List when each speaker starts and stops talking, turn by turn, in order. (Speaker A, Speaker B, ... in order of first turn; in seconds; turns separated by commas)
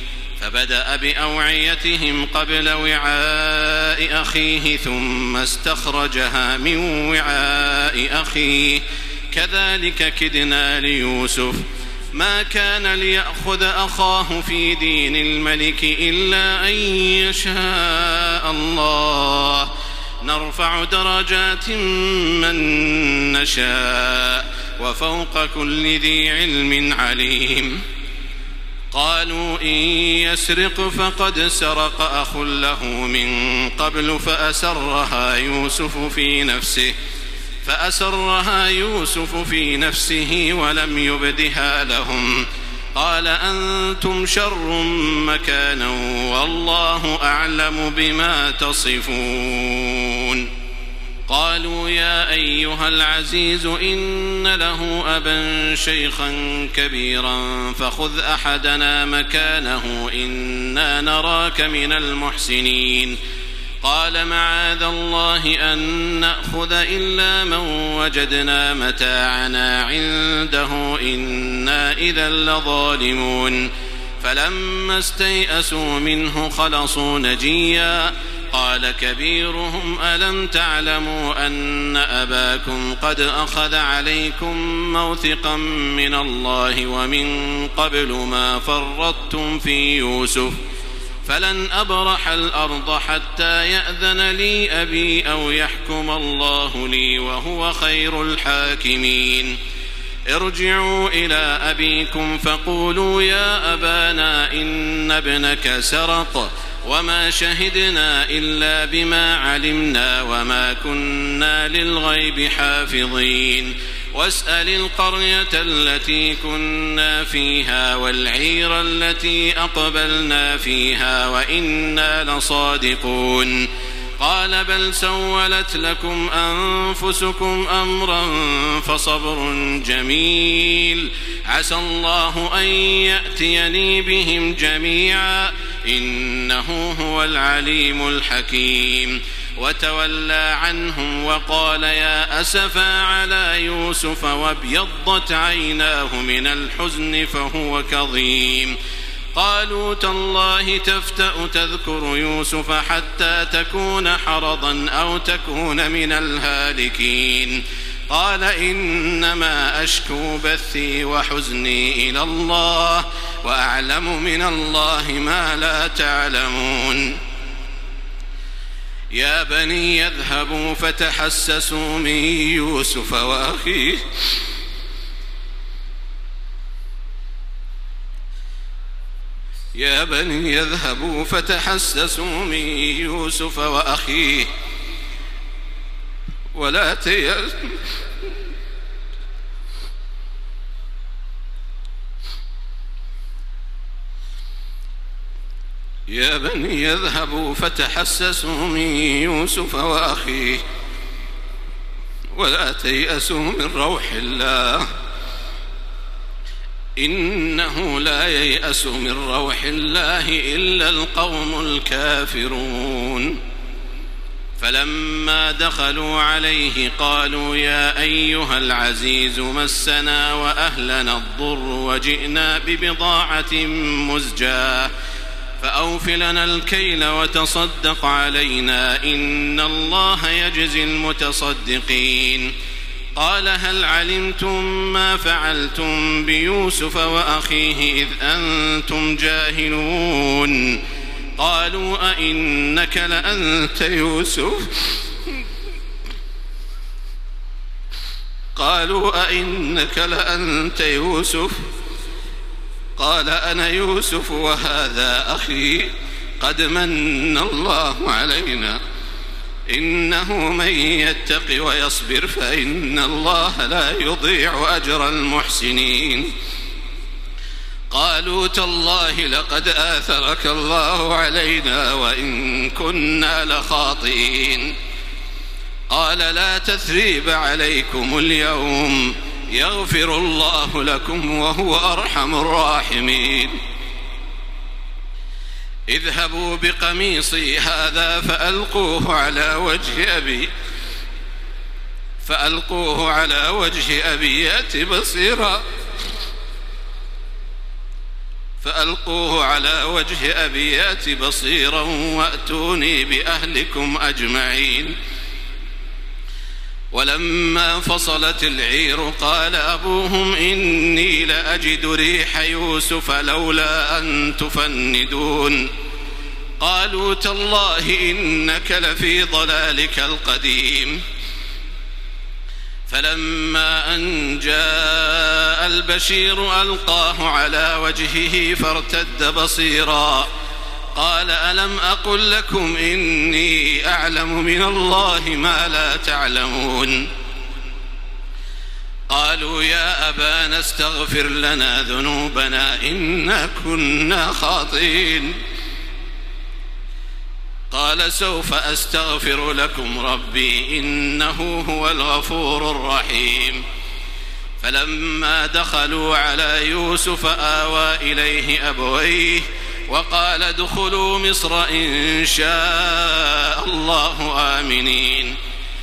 Speaker A: 0.4-19.7, Speaker A: 20.2-27.8, Speaker A: 28.9-36.9, Speaker A: 37.6-50.5, Speaker A: 51.3-63.2, Speaker A: 63.8-73.7, Speaker A: 74.2-90.6, Speaker A: 91.2-99.6, Speaker A: 100.3-123.7, Speaker A: 124.2-148.8, Speaker A: 149.3-167.2, Speaker A: 169.1-174.4, Speaker A: 179.8-184.5, Speaker A: 186.5-187.9, Speaker A: 196.1-200.6, Speaker A: 202.3-204.9, Speaker A: 207.0-213.4, Speaker A: 214.6-224.9, Speaker A: 225.6-232.5, Speaker A: 233.2-240.8, Speaker A: 241.4-245.3, Speaker A: 248.6-251.6, Speaker A: 253.0-258.8, Speaker A: 259.7-266.3, Speaker A: 267.9-274.7, Speaker A: 275.9-283.6, Speaker A: 285.9-290.5, Speaker A: 292.2-295.6, Speaker A: 298.6-304.9, Speaker A: 306.9-315.7, Speaker A: 316.6-321.0, Speaker A: 322.9-330.3, Speaker A: 330.9-337.1, Speaker A: 339.1-345.3, Speaker A: 347.7-353.6, Speaker A: 354.6-365.4